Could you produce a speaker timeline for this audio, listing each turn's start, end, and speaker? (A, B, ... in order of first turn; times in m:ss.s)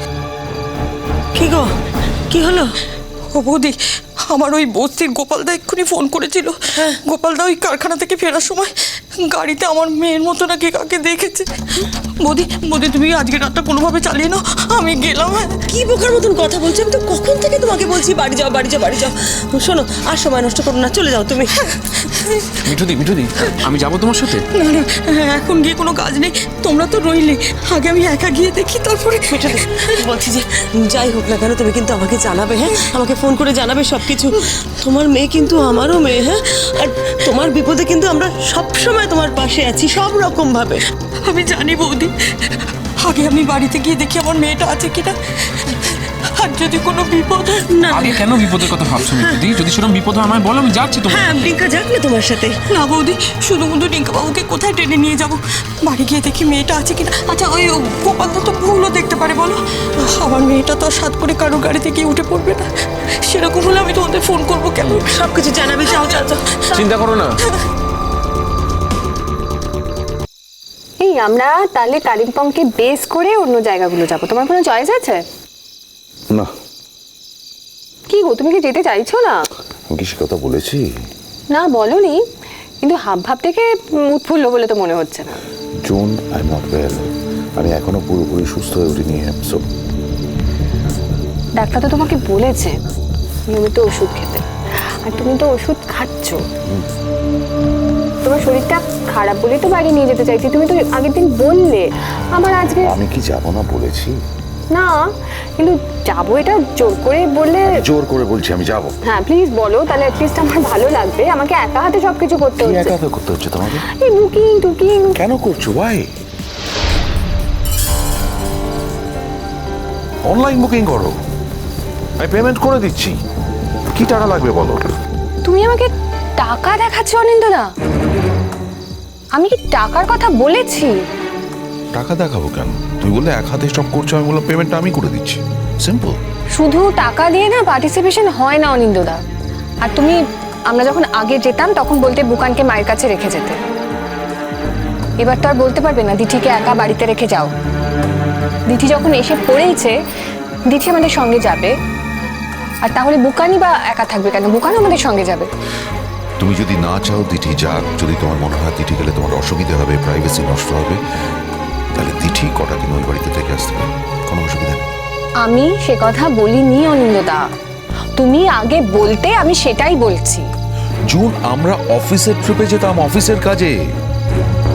0:01.3-0:01.7 A
0:02.3-0:02.7 A
0:03.3-0:15.6 B
0:15.7-0:21.8 A
0:22.0-0:22.8 B
0:22.7-0:24.4 C
0:23.5-0:23.8 B
0:24.4-0:30.0 B
0:29.3-0:40.8 A
0:41.2-0:47.7 B
0:47.7-0:49.7 A
0:47.9-0:51.2 C
0:51.0-0:52.6 A
0:52.7-1:02.6 B
1:03.2-1:05.2 B
1:05.0-1:06.8 A
1:05.8-1:06.9 B
1:06.8-1:07.3 C
1:11.0-1:15.2 D
1:18.1-1:19.5 D
1:19.9-1:20.8 E
1:21.5-1:22.2 D
1:22.8-1:25.4 D
1:25.8-1:29.6 E
1:31.6-1:32.7 D
1:33.5-1:34.4 D
1:35.0-1:36.4 D
1:38.2-1:42.9 D
1:42.8-1:44.2 E
1:44.7-1:47.8 D
1:47.6-1:48.9 E
1:49.1-1:52.9 D
1:52.6-1:53.8 E
1:54.0-1:55.2 D
1:55.1-1:56.1 E
2:00.2-2:01.1 E
2:02.2-2:03.1 E
2:03.9-2:04.9 E
2:05.4-2:07.7 D
2:09.3-2:11.0 D
2:11.9-2:16.2 E
2:16.6-2:19.2 D
2:19.8-2:23.6 D
2:25.2-2:27.5 D
2:28.7-2:29.9 D
2:30.7-2:31.7 D
2:32.8-2:35.5 D
2:36.4-2:41.0 E
2:41.9-2:44.8 E
2:45.4-2:47.4 D
2:48.2-2:50.4 D
2:51.1-2:53.7 E